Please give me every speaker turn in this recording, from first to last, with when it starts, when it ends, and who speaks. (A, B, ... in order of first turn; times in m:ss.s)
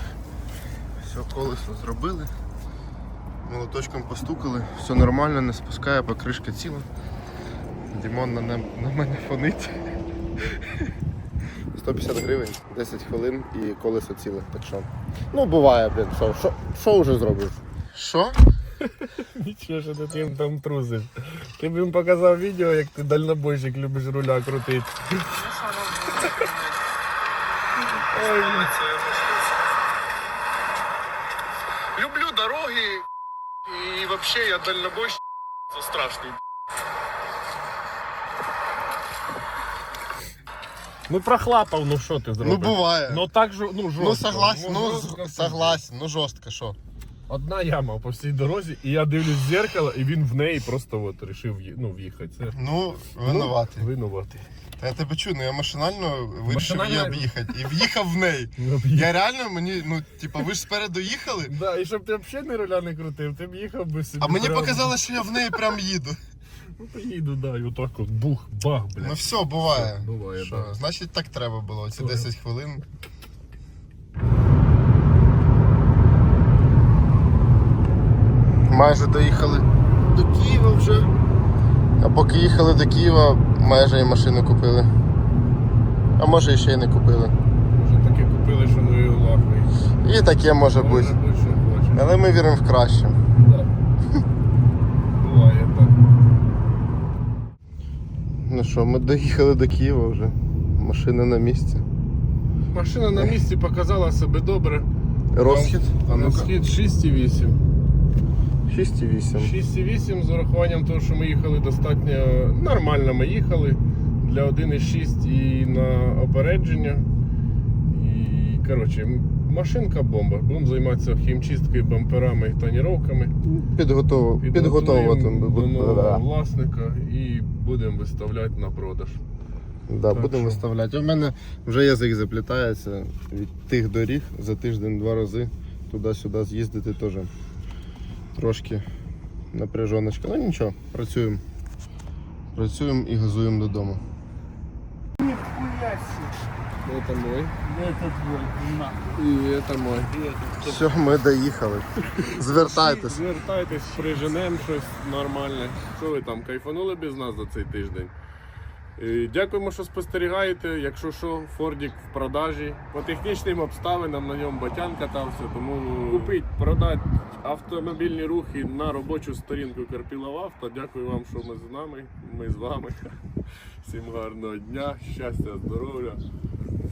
0:01.0-0:02.3 A
0:03.4-0:06.9 A
0:07.9-0:09.8 A
0:11.7-0:18.4 A
0:18.8-0:26.7 B
0:27.8-0:29.5 B
0:28.4-0:28.7 C
0:31.9-0:33.0 B
0:33.6-0:36.4 B
0:41.1-0:45.8 B
0:42.4-0:43.3 A
0:44.0-0:46.8 A
0:47.3-0:52.6 B
0:52.5-0:53.8 A
0:53.2-0:54.4 B
0:54.8-1:01.5 A
0:56.5-0:57.3 B
0:58.6-0:59.1 B
1:01.5-1:05.0 B
1:04.2-1:06.2 A
1:06.8-1:10.7 B
1:09.0-1:12.8 A
1:12.0-1:12.3 B
1:18.7-1:21.1 A
1:22.0-1:24.9 A
1:26.2-1:27.3 A
1:27.7-1:29.7 B
1:30.0-1:31.2 A
1:30.7-1:32.2 B
1:31.9-1:33.2 A
1:33.4-1:33.7 B
1:35.2-1:36.0 B
1:38.4-1:41.8 A
1:42.7-1:44.9 B
1:45.3-1:46.5 A
1:45.4-1:47.6 B
1:48.7-1:49.5 A
1:49.4-1:57.1 B
1:57.9-2:03.3 B
2:03.5-2:06.2 A
2:04.4-2:09.2 B
2:09.9-2:17.3 A
2:10.1-2:10.6 B
2:18.3-2:18.8 A
2:19.5-2:21.4 A
2:22.5-2:24.0 A
2:25.2-2:26.3 C
2:26.8-2:27.5 B
2:27.6-2:29.1 C
2:29.1-2:30.8 B
2:30.6-2:33.2 A
2:32.2-2:38.1 B
2:39.0-2:53.1 B
2:53.8-2:56.2 B